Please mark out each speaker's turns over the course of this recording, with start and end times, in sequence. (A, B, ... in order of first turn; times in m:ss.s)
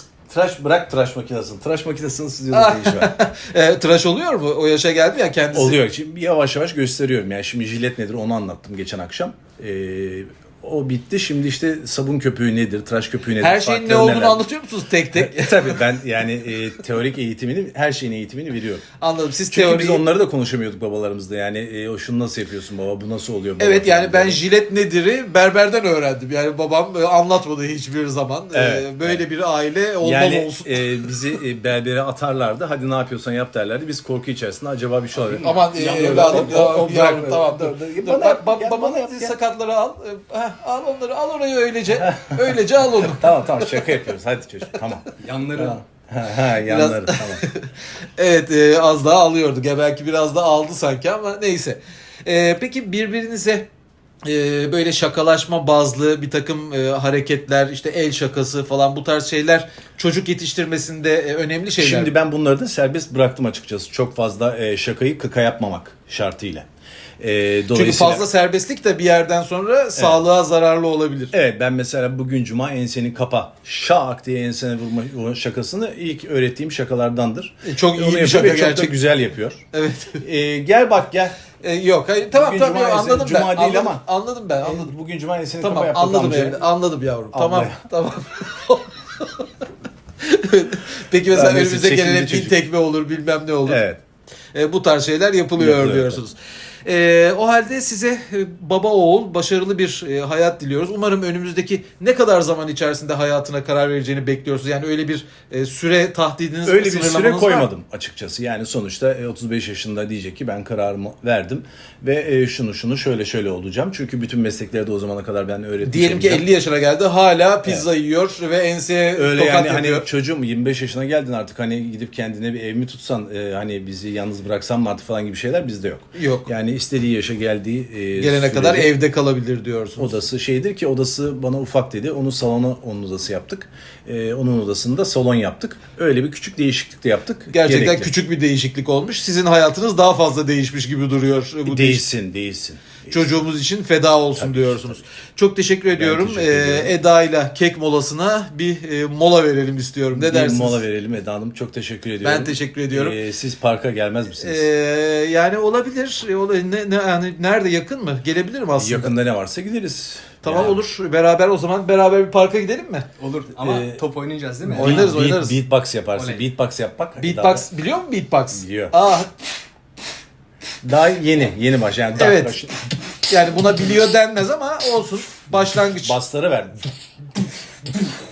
0:00.3-0:03.2 A
0:02.5-0:05.8 B
0:05.5-0:14.4 A
0:13.4-0:16.0 B
0:15.1-0:18.8 A
0:19.0-0:20.0 B
0:19.5-0:24.4 A
0:23.6-0:31.2 B
0:28.5-0:29.2 A
0:30.0-0:39.3 A
0:35.2-0:37.5 C
0:35.4-0:43.9 B
0:41.9-0:47.4 A
0:45.2-0:45.8 C
0:46.6-0:53.7 B
0:54.2-1:02.1 B
1:01.8-1:06.7 A
1:07.2-1:08.2 A
1:07.7-1:11.3 B
1:10.0-1:10.2 A
1:11.3-1:19.6 A
1:17.6-1:19.0 B
1:19.7-1:20.2 B
1:20.2-1:21.4 A
1:21.6-1:24.9 B
1:22.3-1:24.0 A
1:24.6-1:26.6 A
1:25.6-1:29.5 B
1:27.3-1:27.8 A
1:30.2-1:33.8 B
1:31.3-1:32.6 A
1:33.7-1:34.0 A
1:34.5-1:47.7 B
1:35.6-1:36.2 A
1:46.6-1:56.4 A
1:55.8-2:00.1 B
1:59.2-2:08.9 A
2:06.2-2:06.5 B
2:08.2-2:10.2 B
2:10.0-2:18.1 A
2:17.5-2:22.1 B
2:21.7-2:23.2 A
2:23.1-2:30.8 B
2:24.4-2:25.0 A
2:25.9-2:27.0 A
2:30.1-2:34.7 A
2:32.2-2:33.2 B
2:34.4-2:39.2 B
2:38.7-2:40.8 A
2:40.4-2:43.1 B
2:43.2-2:45.3 C
2:43.6-2:44.0 A
2:44.7-2:47.7 A
2:44.7-2:45.6 B
2:46.1-2:46.4 C
2:47.2-2:49.3 B
2:48.5-2:48.9 A
2:50.8-2:52.7 A
2:52.2-2:52.6 B
2:53.3-2:56.2 B
2:56.0-2:56.8 A